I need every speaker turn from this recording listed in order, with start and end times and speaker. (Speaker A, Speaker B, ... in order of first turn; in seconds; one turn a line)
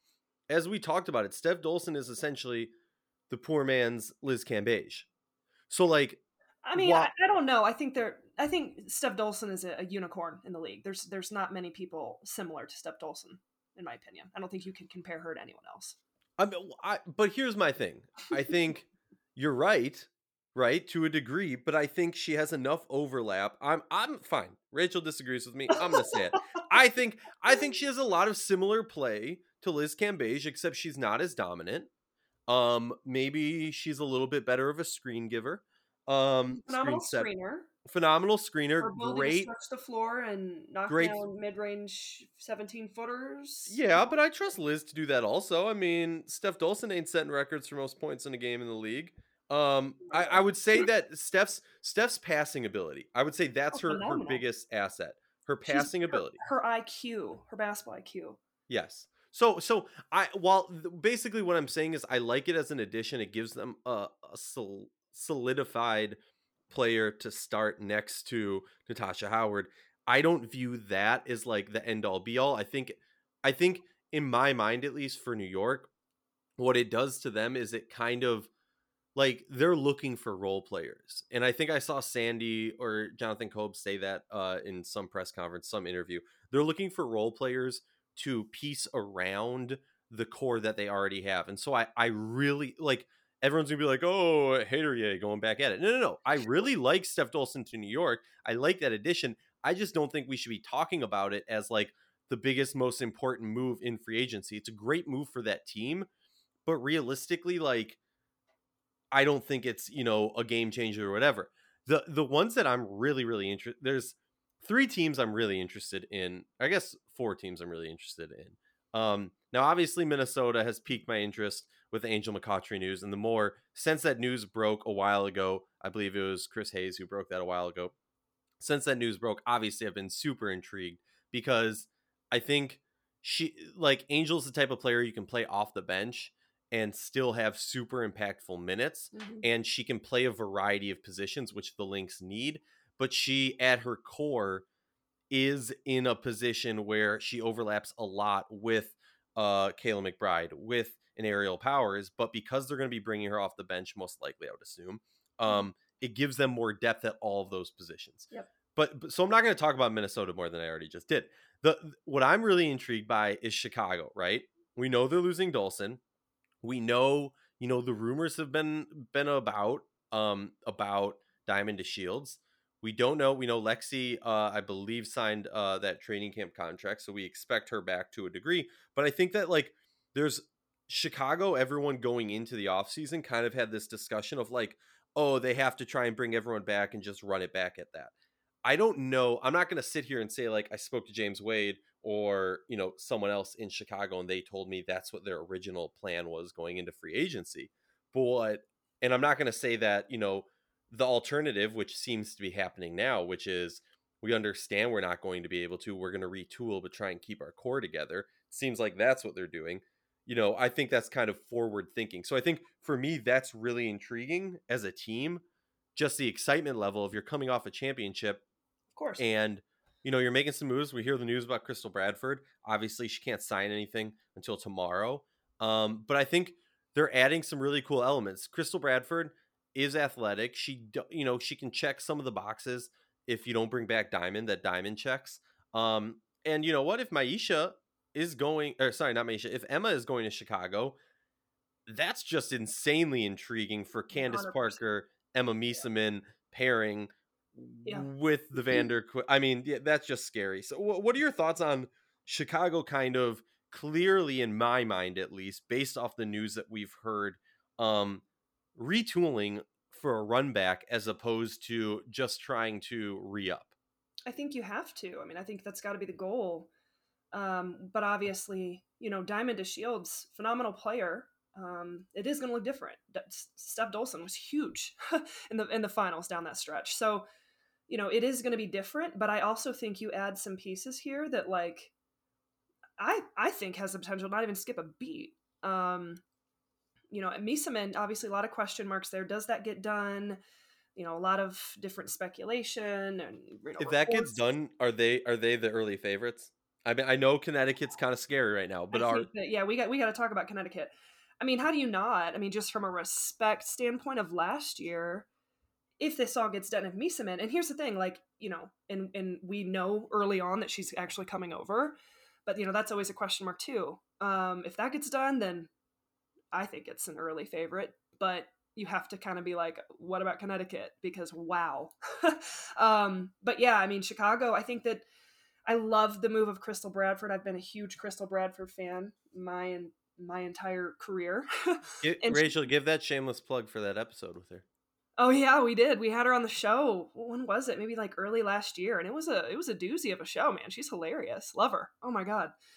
Speaker A: 0.5-2.7
Speaker A: 3.3-5.1
Speaker A: 5.7-6.2
Speaker B: 6.7-16.0
Speaker A: 6.7-7.1
Speaker A: 16.4-31.9
Speaker A: 32.5-37.3
Speaker B: 36.5-37.7
Speaker A: 37.8-39.5
Speaker B: 38.8-44.1
Speaker A: 40.9-41.2
Speaker A: 43.7-56.4
Speaker B: 50.1-50.4
Speaker B: 53.7-54.4
Speaker B: 55.7-58.4
Speaker A: 58.7-66.2
Speaker A: 66.7-75.9
Speaker A: 76.6-78.5
Speaker A: 79.2-106.1
Speaker A: 106.7-108.0
Speaker A: 109.1-127.9
Speaker A: 128.6-144.7
Speaker B: 139.1-139.5
Speaker A: 145.3-166.0
Speaker A: 166.6-188.1
Speaker A: 188.7-215.4
Speaker A: 215.9-218.4
Speaker B: 218.9-219.2
Speaker A: 219.2-241.0
Speaker A: 241.9-258.2
Speaker B: 244.1-244.8
Speaker A: 258.8-263.7
Speaker B: 264.3-266.7
Speaker B: 267.3-277.2
Speaker B: 277.9-281.9
Speaker B: 283.0-286.2
Speaker B: 287.1-290.4
Speaker B: 290.9-294.5
Speaker A: 293.8-299.3
Speaker B: 298.9-305.3
Speaker B: 306.0-311.9
Speaker B: 312.5-315.7
Speaker B: 316.5-325.1
Speaker B: 325.7-332.5
Speaker A: 332.0-334.6
Speaker B: 335.2-342.5